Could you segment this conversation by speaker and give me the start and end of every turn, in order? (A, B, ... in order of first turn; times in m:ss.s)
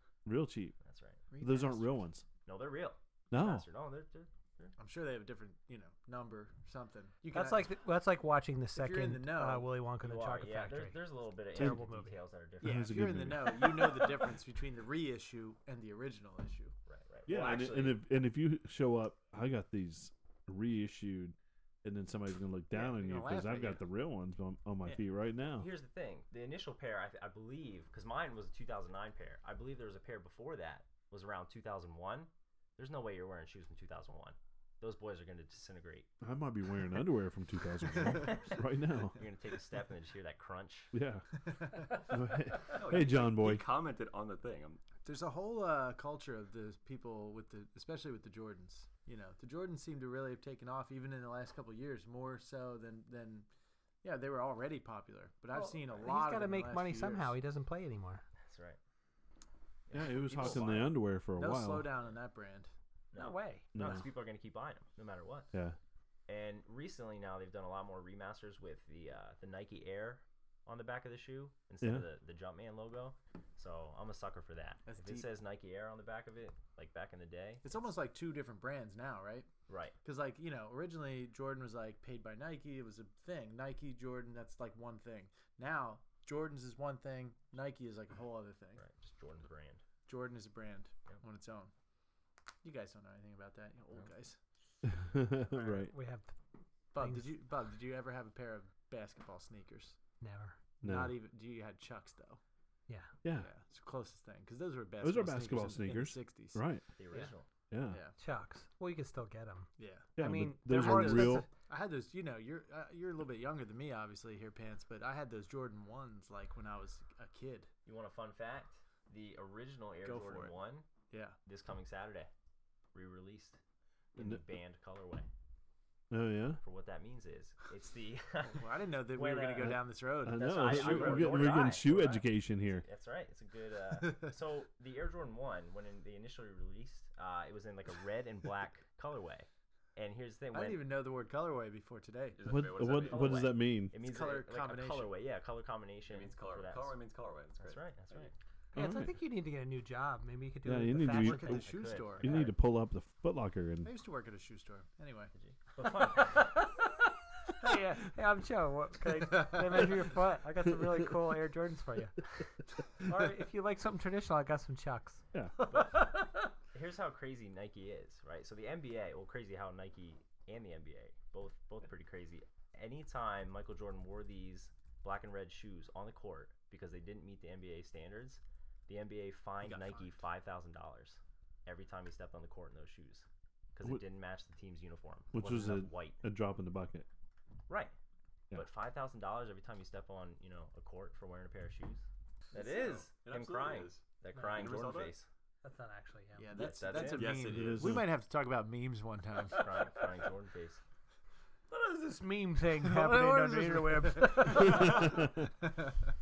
0:00.2-0:00.8 A
0:00.8-0:01.2 B
0:01.3-0:02.0 C
0:01.4-0:02.2 A
0:02.4-0:04.7 B
0:03.3-0:03.6 A
0:04.8-0:07.7 C
0:07.3-0:12.2 D
0:08.7-0:09.7 C
0:10.0-0:13.3 B
0:12.6-0:13.8 A
0:12.6-0:16.8 C
0:16.9-0:18.0 B
0:17.3-0:25.7 A
0:22.7-0:23.8 C
0:25.5-0:36.1 B
0:36.2-0:39.2 A
0:38.0-0:40.9 B
0:40.9-0:41.3 A
0:41.5-0:41.9 C
0:41.9-0:43.7 A
0:42.7-0:44.8 E
0:45.0-0:53.5 C
0:54.0-0:57.3 C
0:55.5-0:58.2 D
0:58.4-0:58.8 B
0:59.9-1:01.0 B
0:59.9-1:01.9 A
1:00.4-1:00.7 C
1:01.3-1:02.7 C
1:03.1-1:05.5 B
1:03.1-1:03.7 D
1:03.7-1:04.1 A
1:06.3-1:17.6 B
1:14.8-1:15.3 C
1:17.6-1:19.5 C
1:19.7-1:20.0 B
1:20.0-1:28.8 C
1:28.8-1:29.8 B
1:30.0-1:31.7 C
1:32.6-1:34.4 C
1:34.8-1:35.9 A
1:35.5-1:36.4 D
1:36.9-1:40.0 C
1:37.0-1:37.3 D
1:40.2-1:40.6 D
1:40.8-1:42.4 C
1:40.8-1:41.2 A
1:42.9-1:43.1 D
1:43.2-1:43.5 A
1:43.3-1:46.6 C
1:45.0-1:46.8 A
1:47.0-1:47.5 B
1:47.7-1:48.0 A
1:47.9-1:48.1 C
1:48.2-1:51.5 D
1:49.8-1:50.1 C
1:50.2-1:51.4 A
1:50.7-1:57.7 C
1:57.8-2:00.9 B
2:00.0-2:00.5 C
2:01.1-2:01.4 C
2:01.4-2:02.3 B
2:02.9-2:03.6 B
2:04.1-2:05.3 B
2:04.2-2:04.4 A
2:06.1-2:06.6 A
2:06.6-2:20.9 B
2:08.4-2:11.5 C
2:09.6-2:12.8 A
2:10.7-2:11.2 E
2:20.5-2:22.4 C
2:22.3-2:23.5 E
2:22.4-2:23.9 A
2:22.8-2:27.0 B
2:23.9-2:25.1 C
2:26.1-2:28.3 E
2:27.6-2:28.3 B
2:28.7-2:31.5 D
2:28.7-2:29.1 A
2:30.6-2:33.9 A
2:31.1-2:32.5 C
2:31.1-2:32.5 B
2:33.8-2:35.3 C
2:35.3-2:36.6 B
2:36.2-2:37.1 D
2:37.6-2:42.4 D
2:43.0-2:46.2 D
2:45.7-2:46.0 B
2:46.7-3:06.2 B
2:59.6-3:00.1 C
3:05.3-3:07.1 A
3:07.7-3:07.9 B
3:08.5-3:15.3 B
3:12.5-3:15.1 E
3:15.6-3:16.7 D
3:16.4-3:20.0 C
3:16.5-3:17.4 B
3:16.9-3:17.9 E
3:17.5-3:18.1 A
3:19.5-3:20.8 B
3:21.7-3:25.2 D
3:22.7-3:26.0 C
3:24.8-3:25.3 A